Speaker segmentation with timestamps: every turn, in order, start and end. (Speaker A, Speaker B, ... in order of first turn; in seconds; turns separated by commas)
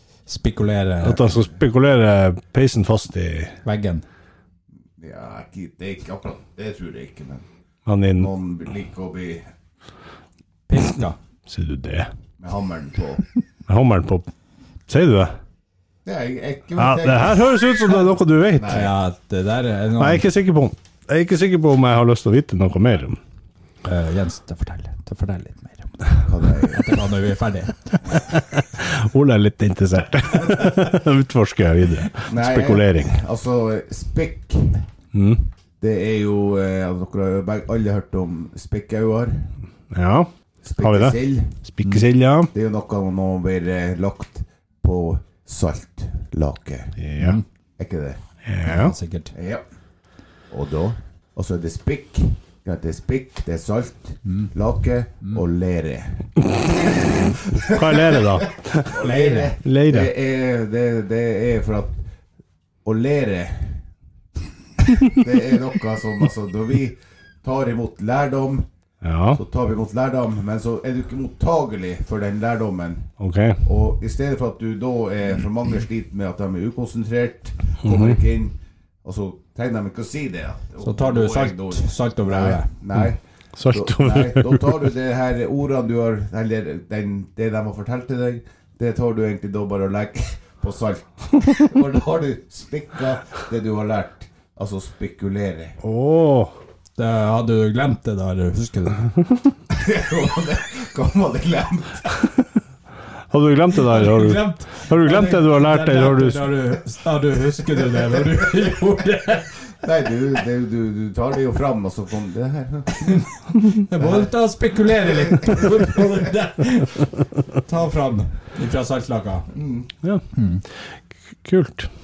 Speaker A: 0.3-1.3, Speaker B: 1.0-3.5, Speaker A: 3.6-4.0, Speaker C: 5.0-7.4, Speaker B: 7.9-8.3, Speaker C: 8.2-9.4, Speaker A: 10.7-11.2, Speaker B: 11.5-12.1, Speaker C: 12.4-13.2, Speaker B: 13.7-14.2, Speaker B: 14.9-15.3, Speaker C: 16.0-17.6, Speaker B: 16.8-18.9, Speaker C: 18.5-18.9, Speaker A: 18.6-20.2, Speaker B: 20.0-23.2, Speaker A: 23.8-28.2, Speaker C: 26.2-26.9, Speaker B: 28.3-33.1, Speaker C: 32.3-34.8, Speaker B: 35.1-35.5, Speaker C: 35.8-39.5, Speaker B: 39.9-40.3, Speaker C: 40.6-41.5, Speaker B: 40.8-42.5, Speaker C: 42.5-46.9, Speaker B: 47.0-47.4, Speaker A: 47.2-47.4, Speaker C: 47.8-48.2, Speaker B: 48.5-48.9, Speaker A: 48.6-49.3, Speaker C: 49.3-49.6, Speaker C: 50.5-62.0, Speaker A: 54.2-54.5, Speaker B: 57.5-59.0, Speaker A: 58.9-59.5, Speaker B: 59.6-60.1, Speaker C: 62.8-63.8, Speaker C: 65.0-68.7, Speaker B: 69.0-69.4, Speaker C: 69.3-73.1, Speaker B: 73.2-73.6, Speaker C: 73.6-83.2, Speaker B: 77.8-78.2, Speaker A: 80.8-82.7, Speaker B: 82.9-84.8, Speaker C: 83.7-95.8, Speaker B: 95.8-96.5, Speaker A: 97.0-99.0, Speaker C: 99.7-102.2, Speaker B: 103.3-106.7, Speaker A: 103.8-109.5, Speaker C: 108.2-108.6, Speaker C: 109.8-113.2, Speaker A: 113.8-119.5, Speaker C: 114.0-114.3, Speaker C: 115.2-116.0, Speaker C: 119.5-119.9, Speaker A: 120.3-120.6, Speaker B: 121.4-121.9